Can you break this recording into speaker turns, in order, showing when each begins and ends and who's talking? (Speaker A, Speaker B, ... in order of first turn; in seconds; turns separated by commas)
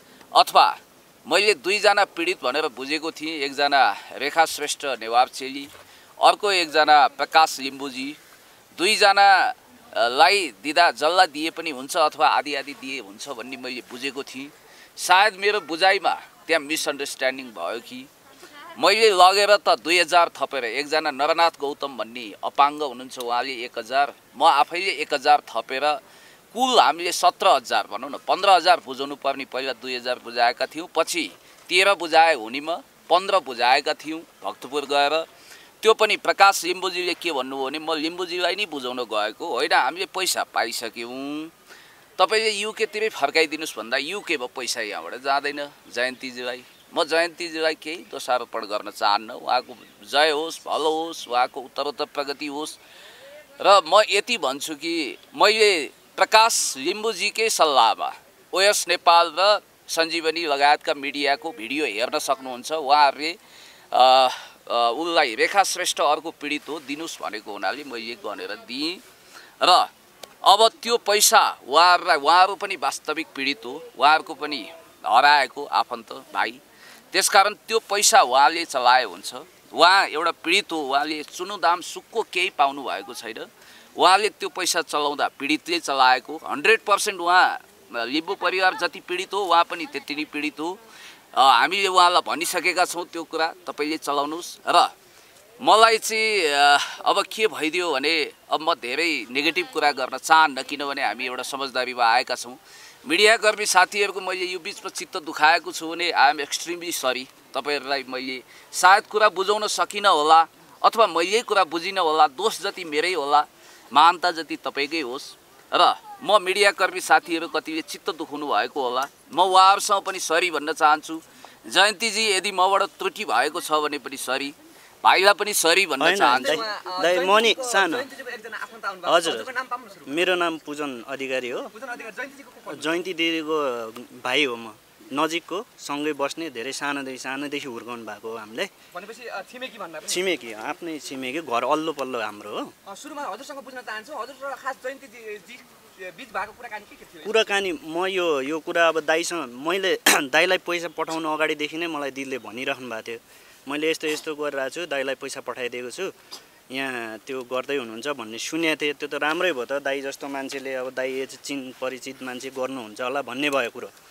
Speaker A: 0.3-5.7, Speaker A: 6.2-8.2, Speaker A: 8.8-18.1, Speaker A: 18.8-26.0, Speaker A: 26.5-35.2, Speaker A: 35.8-41.5, Speaker A: 42.2-52.8, Speaker A: 53.6-63.4, Speaker A: 63.9-69.0, Speaker A: 69.6-69.9, Speaker A: 70.4-76.6, Speaker A: 77.1-90.8, Speaker A: 91.3-94.9, Speaker A: 95.6-126.6, Speaker B: 126.0-128.1, Speaker C: 126.3-130.3, Speaker B: 129.1-129.5, Speaker B: 130.1-131.7, Speaker C: 131.7-133.0, Speaker B: 132.7-138.7, Speaker C: 138.9-140.3, Speaker B: 140.1-142.7, Speaker C: 142.8-147.6, Speaker B: 147.2-156.1, Speaker B: 156.7-163.9